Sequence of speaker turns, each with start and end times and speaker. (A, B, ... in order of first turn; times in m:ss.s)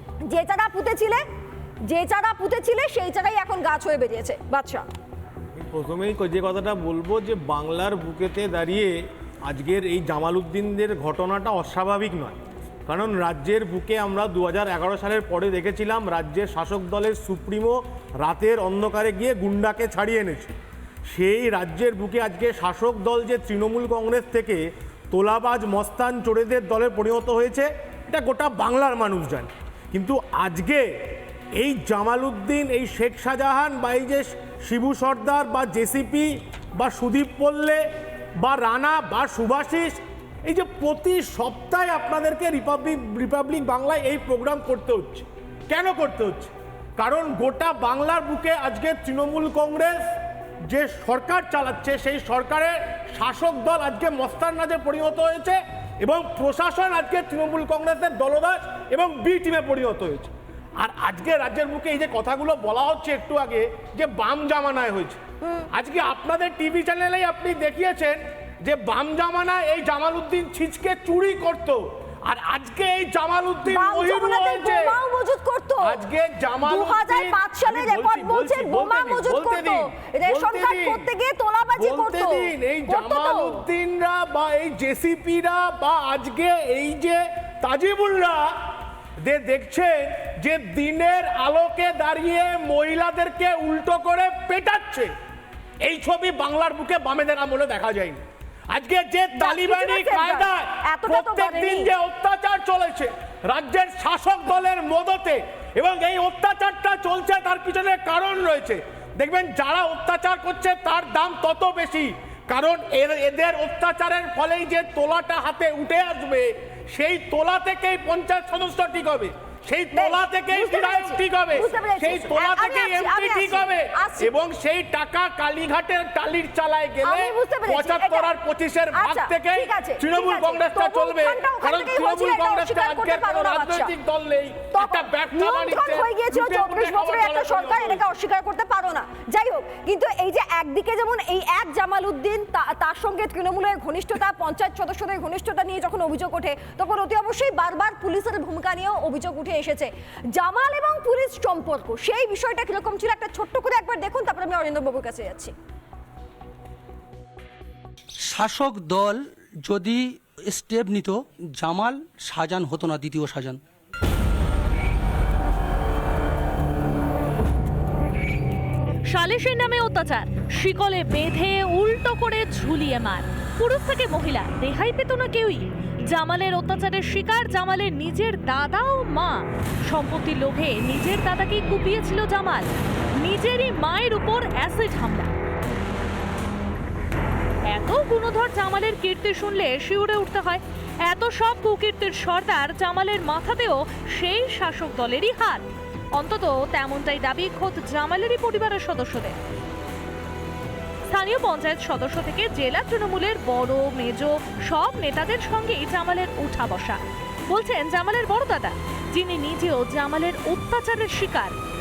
0:00.2-0:01.2 A
0:01.9-0:04.8 A
0:05.6-0:20.6 B
0:21.1-0:30.8 B
0:31.6-0:37.8 B
0:38.4-0:50.0 B
0:50.7-1:05.2 B
1:05.7-1:15.0 B
1:13.7-1:16.0 A
1:15.8-1:21.1 B
1:16.6-1:23.7 A
1:21.8-1:28.5 B
1:29.2-1:35.1 B
1:35.8-2:18.1 B
1:39.3-1:42.0 A
1:59.9-2:04.3 A
2:07.0-2:08.3 A
2:08.9-2:13.9 A
2:14.7-2:35.5 A
2:38.3-2:43.6 C
2:49.1-3:02.7 D
3:03.2-3:05.3 D
3:07.7-3:15.6 D
3:16.2-3:19.4 D
3:21.1-3:27.0 D
3:27.5-3:31.6 D